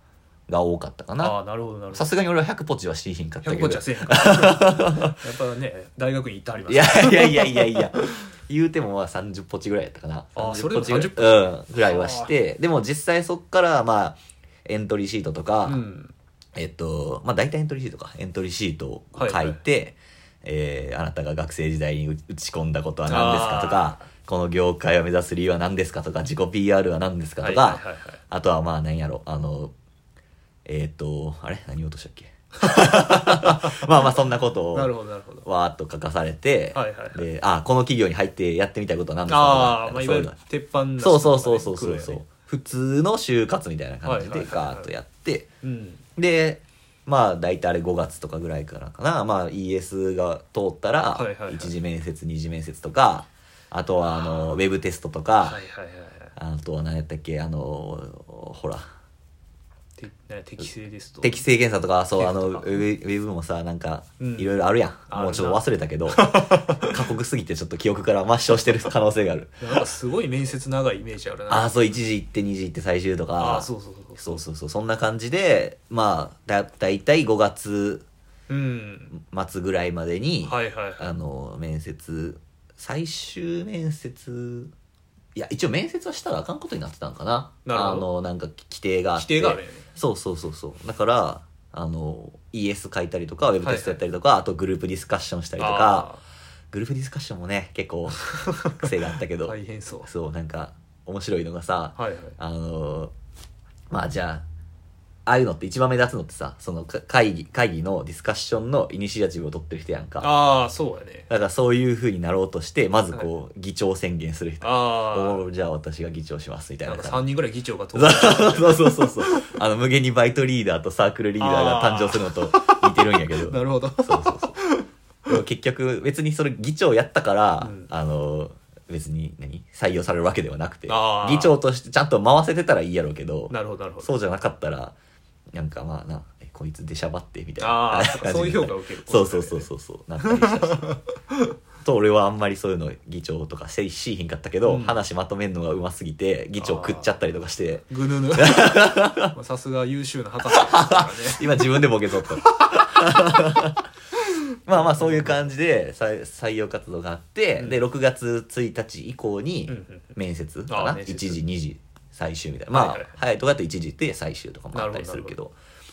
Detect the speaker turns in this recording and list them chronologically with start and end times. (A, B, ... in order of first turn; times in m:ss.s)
0:00.5-0:01.4 A
0:01.2-0:02.1 B
0:01.9-0:05.2 A
0:03.4-0:08.1 B
0:06.7-0:15.8 A
0:10.3-0:12.4 B
0:15.6-0:16.1 B
0:16.5-0:29.7 A
0:19.1-0:19.6 B
0:23.1-0:24.0 B
0:27.4-0:28.2 B
0:30.6-0:34.9 A
0:32.9-0:33.7 B
0:34.7-0:35.5 B
0:35.4-0:40.4 A
0:36.7-0:37.3 B
0:39.3-0:42.3 B
0:41.0-0:45.5 A
0:44.0-0:44.9 B
0:45.6-0:46.0 B
0:46.2-0:55.6 A
0:51.1-0:51.8 B
0:54.0-0:54.6 B
0:55.4-0:56.3 B
0:56.4-0:58.8 A
1:00.0-1:01.4 B
1:01.2-1:09.6 A
1:02.1-1:02.8 B
1:04.2-1:04.5 B
1:05.1-1:06.9 B
1:09.6-1:11.8 B
1:11.5-1:18.0 A
1:13.4-1:14.4 B
1:18.5-1:19.1 B
1:19.1-1:24.7 A
1:20.4-1:21.1 B
1:25.3-1:36.1 A
1:27.6-1:28.1 B
1:29.2-1:29.9 B
1:33.6-1:34.0 B
1:35.6-1:36.2 B
1:36.7-1:43.1 A
1:38.4-1:38.7 B
1:39.4-1:40.1 B
1:42.0-1:42.4 B
1:43.9-1:44.4 A
1:45.2-1:50.4 A
1:50.2-1:51.3 B
1:51.3-1:57.2 A
1:54.6-1:55.4 B
1:56.8-1:59.4 B
1:57.9-2:04.6 A
2:01.4-2:02.8 B
2:03.4-2:05.4 B
2:05.3-2:15.0 A
2:07.6-2:07.9 B
2:10.9-2:11.6 B
2:13.5-2:14.1 B
2:15.5-2:20.9 A
2:17.6-2:19.7 B
2:20.2-2:21.0 B
2:21.8-2:29.3 A
2:24.6-2:25.0 B
2:26.6-2:27.1 B
2:27.9-2:32.8 B
2:30.5-2:33.8 A
2:34.6-2:45.5 A
2:34.7-2:35.5 B
2:39.7-2:40.1 B
2:40.7-2:41.4 B
2:42.7-2:43.2 B
2:44.7-2:45.4 B